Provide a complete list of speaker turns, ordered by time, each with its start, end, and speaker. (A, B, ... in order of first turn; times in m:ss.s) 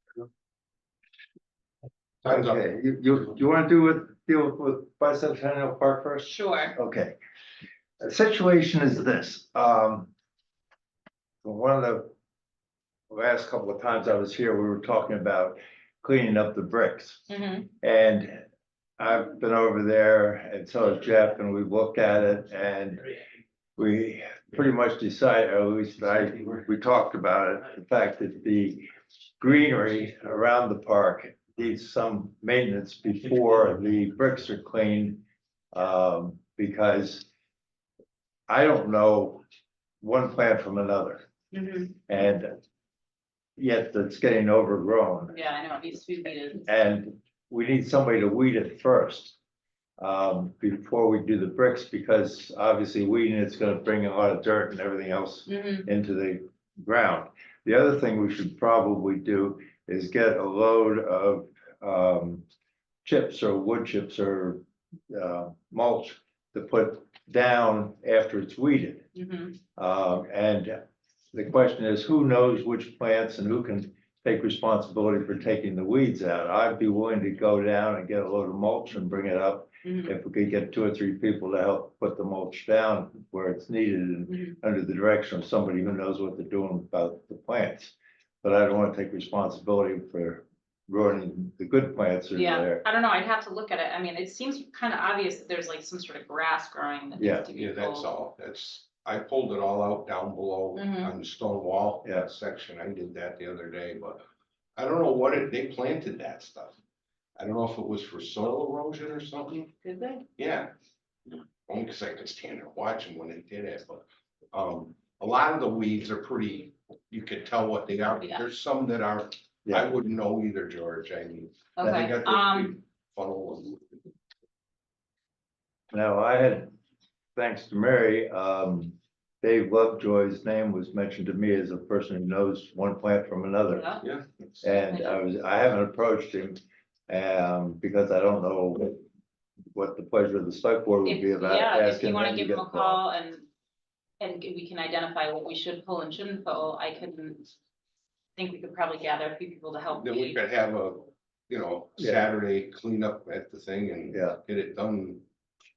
0:02.2-0:02.6 A
0:02.2-0:07.2 B
0:06.3-0:06.8 C
0:08.0-0:10.1 B
0:11.4-0:12.1 B
0:13.1-0:17.3 B
0:17.3-0:17.7 C
0:17.8-0:18.4 B
0:19.0-0:23.1 B
0:23.8-0:28.8 B
0:29.4-0:37.3 B
0:38.5-0:39.4 B
0:40.0-0:41.3 B
0:41.5-0:42.0 C
0:42.1-0:42.6 B
0:43.6-0:45.3 B
0:45.3-0:46.7 C
0:46.7-0:49.4 B
0:50.0-1:02.4 B
0:55.5-0:55.9 C
1:03.0-1:09.1 B
1:09.2-1:09.6 C
1:09.8-1:10.8 B
1:11.3-1:32.8 B
1:19.8-1:20.1 C
1:24.3-1:24.6 C
1:32.4-1:38.1 C
1:37.2-1:37.5 B
1:37.6-1:44.2 A
1:40.8-1:41.1 C
1:44.8-1:46.8 A
1:47.4-1:49.7 A
1:49.8-1:50.2 C
1:50.4-1:50.7 A
1:51.3-2:03.8 A
2:01.8-2:02.8 C
2:05.9-2:06.8 B
2:07.4-2:13.9 B
2:13.7-2:14.0 C
2:14.0-2:14.6 A
2:14.6-2:19.0 B
2:14.7-2:15.2 C
2:19.7-2:23.0 B
2:21.0-2:23.5 C
2:24.2-2:27.5 C
2:28.4-2:30.4 C
2:30.0-2:35.2 A
2:34.1-2:34.4 B